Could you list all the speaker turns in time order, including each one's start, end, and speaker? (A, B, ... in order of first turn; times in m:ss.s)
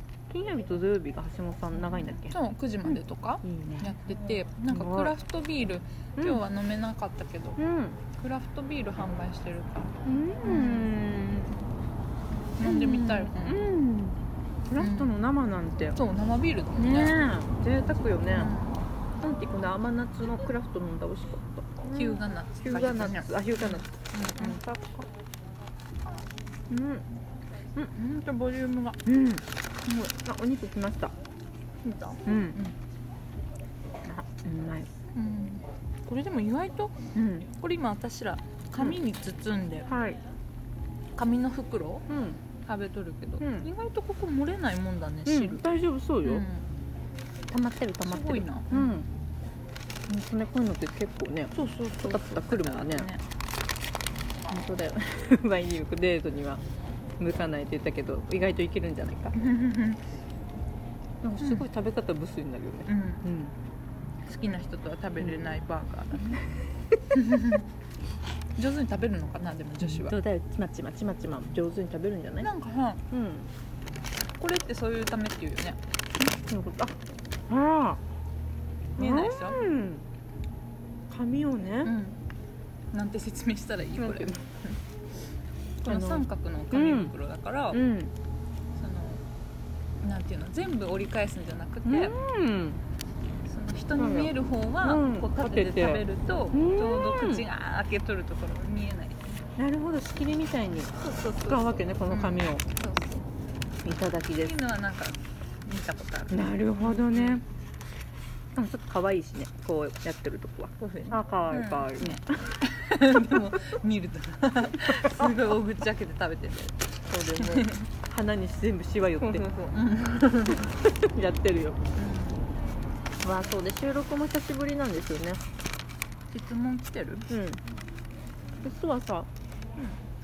0:00.3-0:04.0 A
0:02.1-0:07.6 B
0:04.7-0:05.1 A
0:07.6-0:08.0 A
0:08.1-0:10.9 B
0:10.0-0:11.5 A
0:12.6-0:13.7 B
0:12.6-0:14.2 A
0:14.7-0:16.0 A
0:14.8-0:15.2 B
0:15.9-0:17.2 B
0:16.8-0:18.5 A
0:18.3-0:18.8 B
0:19.2-0:25.1 A
0:21.9-0:24.6 B
0:26.7-0:27.1 A
0:27.9-0:29.0 B
0:29.0-0:31.1 A
0:31.8-0:32.8 B
0:32.2-0:32.6 A
0:34.0-0:34.9 A
0:35.1-0:39.9 B
0:37.1-0:37.5 A
0:39.9-0:40.2 A
0:41.2-0:42.1 B
0:42.1-0:42.4 A
0:42.6-0:45.6 B
0:43.4-0:43.7 A
0:45.2-0:46.5 A
0:46.2-0:46.7 B
0:47.5-0:49.1 A
0:48.0-0:48.9 B
0:50.1-0:53.1 A
0:51.5-0:53.2 B
0:54.5-0:56.6 A
0:57.2-0:59.4 A
0:59.3-1:00.0 B
1:01.2-1:03.5 A
1:01.4-1:01.7 B
1:02.9-1:03.2 B
1:04.2-1:06.4 B
1:05.2-1:05.5 A
1:06.1-1:07.0 A
1:07.1-1:07.7 B
1:08.6-1:10.1 B
1:09.8-1:12.5 A
1:12.4-1:13.0 B
1:13.1-1:13.5 A
1:14.3-1:15.8 B
1:16.2-1:17.0 A
1:17.5-1:18.0 A
1:19.0-1:19.6 B
1:19.0-1:20.0 A
1:21.1-1:22.0 A
1:21.8-1:22.2 B
1:22.9-1:24.8 B
1:24.0-1:24.4 A
1:25.8-1:27.8 B
1:25.9-1:27.1 A
1:27.7-1:28.1 A
1:28.8-1:29.2 B
1:30.0-1:32.1 B
1:31.8-1:32.8 A
1:33.4-1:39.2 B
1:34.0-1:37.4 A
1:39.6-1:42.6 A
1:41.1-1:43.2 B
1:43.8-1:44.5 A
1:44.4-1:47.4 B
1:46.3-1:47.4 A
1:48.5-1:52.2 A
1:50.8-1:57.8 B
1:53.3-1:53.6 A
1:55.0-1:55.3 A
1:57.1-1:59.4 A
1:59.2-2:00.7 B
2:00.6-2:01.8 A
2:01.9-2:02.4 B
2:03.2-2:05.4 A
2:06.3-2:07.3 B
2:07.3-2:07.6 A
2:08.6-2:09.3 A